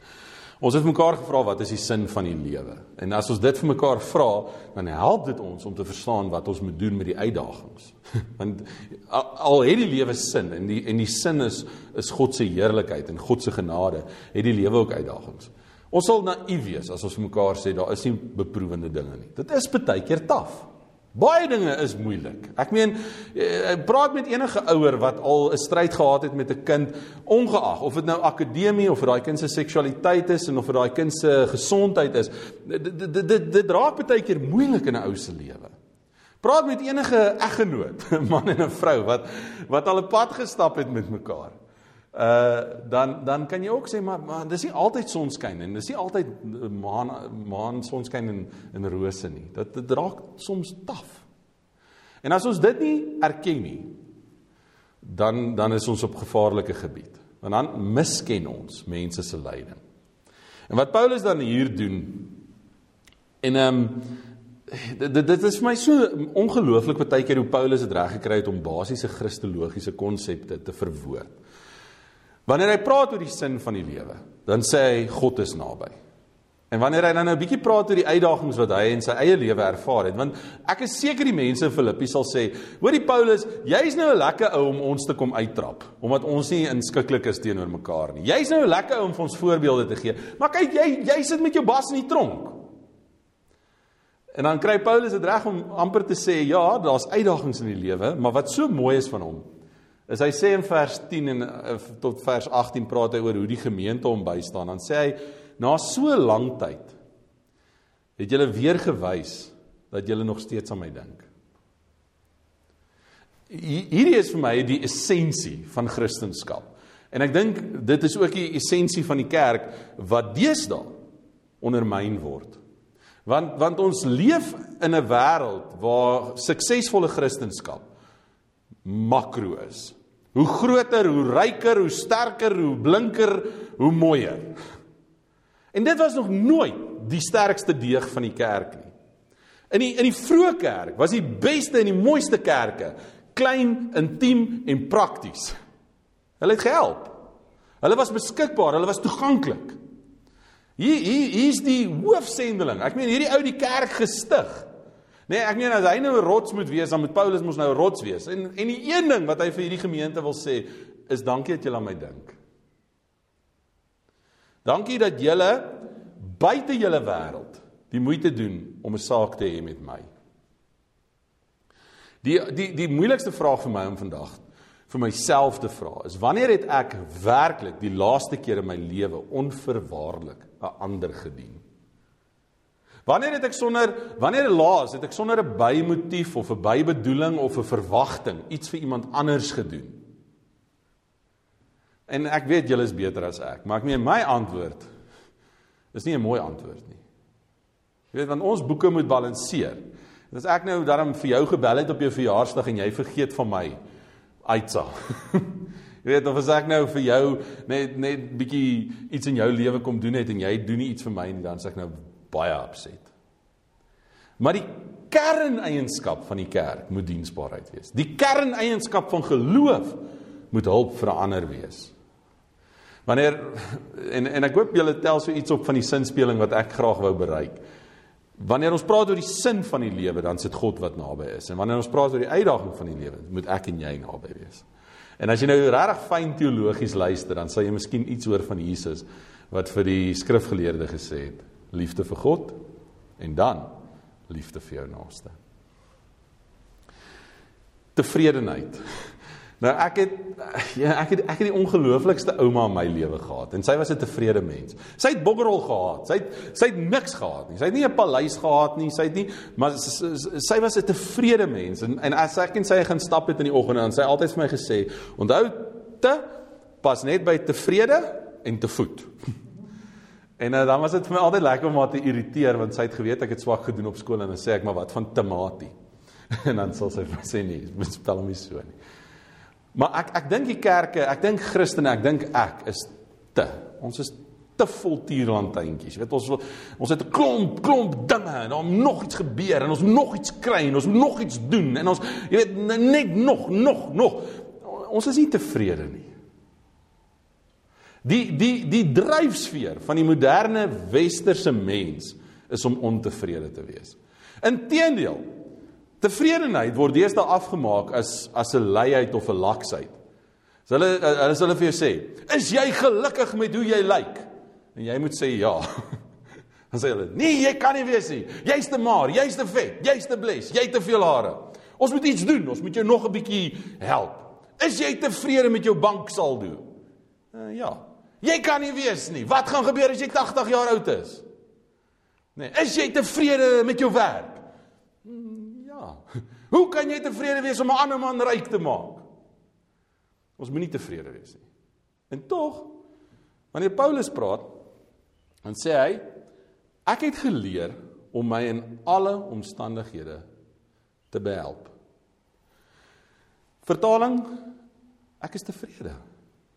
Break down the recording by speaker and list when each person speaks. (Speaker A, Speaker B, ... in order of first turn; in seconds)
Speaker A: 0.6-35.7, 36.4-41.5, 42.1-51.2, 52.2-53.9, 55.0-59.8, 60.7-62.3, 63.4-64.1, 64.7-71.3, 72.5-76.0, 76.7-92.6, 94.3-99.4, 100.1-106.9, 108.2-111.3, 113.5-120.9, 121.6-122.6, 123.2-127.9, 128.8-134.6, 135.7-138.9, 139.7-145.5, 146.4-147.2, 147.8-149.8, 150.8-154.7, 155.3-162.4, 164.6-170.1, 172.2-181.6, 183.1-190.0, 192.1-194.8, 195.9-197.0, 198.1-203.8, 204.4-213.1, 214.4-221.9, 223.1-227.6, 228.4-234.7, 235.2-242.6, 243.2-243.7, 244.3-245.3, 247.9-248.8, 249.6-266.2, 266.8-269.1, 270.4-275.7, 276.3-278.8, 279.7-296.1, 298.0-305.3, 306.0-310.0, 310.7-315.6, 316.7-326.6, 327.3-331.2, 332.3-334.4, 335.0-339.0, 340.4-341.4, 342.1-342.7, 343.5-344.5, 345.4-346.0, 346.9-350.2, 351.1-351.7, 353.6-354.4, 355.2-356.0